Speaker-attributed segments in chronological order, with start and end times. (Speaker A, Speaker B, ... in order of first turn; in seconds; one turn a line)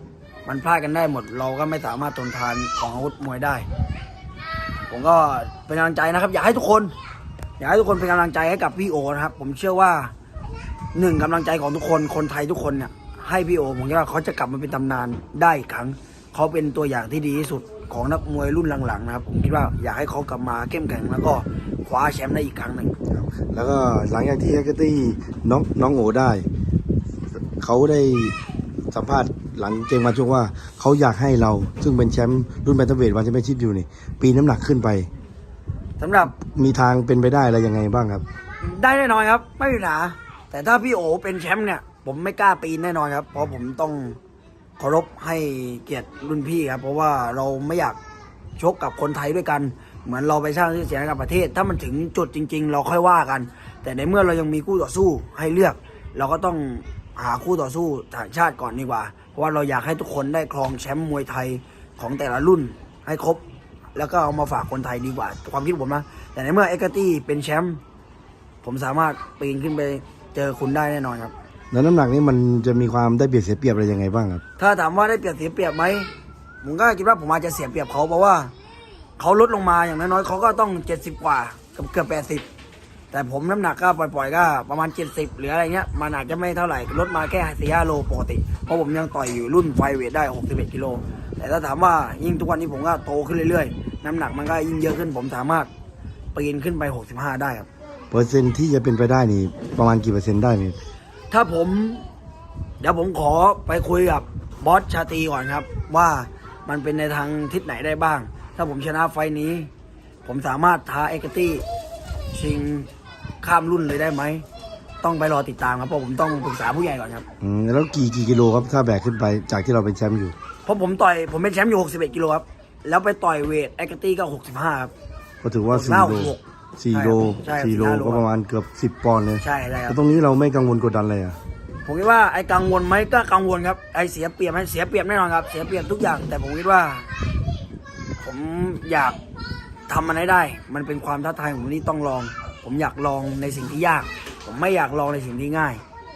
Speaker A: 0.5-3.7
Speaker A: 4.9-6.9
Speaker A: 7.6-10.1
Speaker A: 10.9-23.0
Speaker B: 23.1-26.5
Speaker B: 27.6-28.4
Speaker B: 28.9-35.1
Speaker A: 36.0-36.3
Speaker B: 36.4-38.2
Speaker A: 38.6-44.2
Speaker A: 44.8-48.0
Speaker A: 48.6-63.4
Speaker A: 64.0-67.8
Speaker A: 68.6-71.3
Speaker B: 71.7-74.4
Speaker A: 74.6-76.1
Speaker A: 76.6-78.5
Speaker A: 79.2-82.5
Speaker A: 83.1-95.7
Speaker A: 96.3-97.7
Speaker B: 98.1-100.8
Speaker A: 101.3-102.1
Speaker A: 102.8-109.7
Speaker A: 110.2-111.6
Speaker A: 112.3-112.9
Speaker A: 113.4-114.5
Speaker A: 115.0-117.2
Speaker B: 117.4-120.3
Speaker A: 120.7-124.9
Speaker B: 125.4-131.4
Speaker A: 125.7-126.4
Speaker A: 126.9-128.2
Speaker A: 129.4-130.0
Speaker A: 131.8-137.1
Speaker A: 138.2-139.2
Speaker A: 139.9-145.8